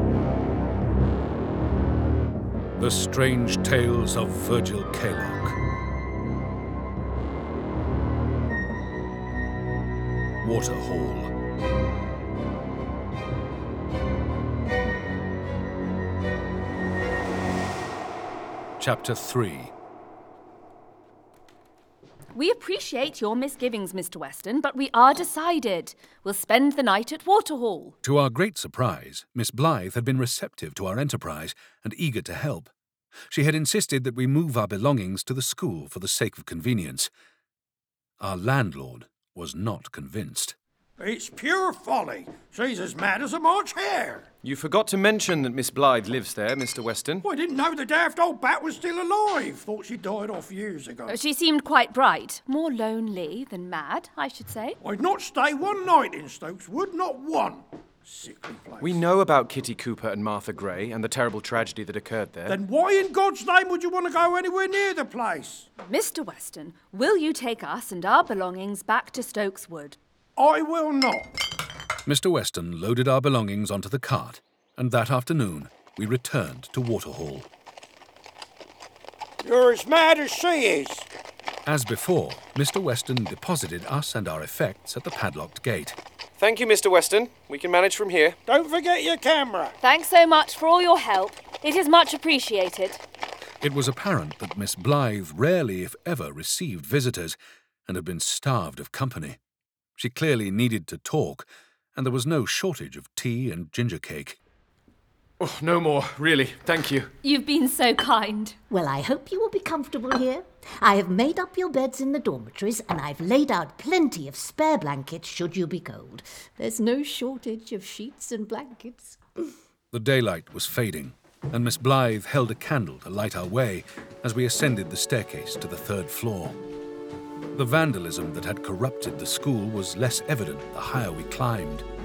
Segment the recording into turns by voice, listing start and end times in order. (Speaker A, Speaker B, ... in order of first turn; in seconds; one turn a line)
Speaker A: 2.8-5.5
Speaker A: 10.4-11.3
Speaker A: 18.8-19.7
Speaker B: 22.3-27.9
Speaker A: 28.0-32.7
Speaker A: 33.3-37.1
Speaker A: 38.2-40.5
Speaker C: 41.0-44.2
Speaker D: 44.4-47.3
Speaker C: 47.2-51.2
Speaker B: 51.1-54.8
Speaker C: 54.8-59.0
Speaker D: 58.8-62.6
Speaker C: 62.5-65.7
Speaker B: 65.8-70.0
Speaker C: 70.4-71.3
Speaker A: 72.0-77.5
Speaker C: 79.4-81.1
Speaker A: 81.7-86.0
Speaker D: 86.4-88.4
Speaker C: 88.5-89.7
Speaker B: 89.8-93.0
Speaker A: 93.6-99.4
Speaker A: 100.0-104.4
Speaker D: 105.4-107.1
Speaker B: 107.2-108.6
Speaker E: 108.7-119.5
Speaker A: 119.9-126.5
Speaker A: 127.5-131.8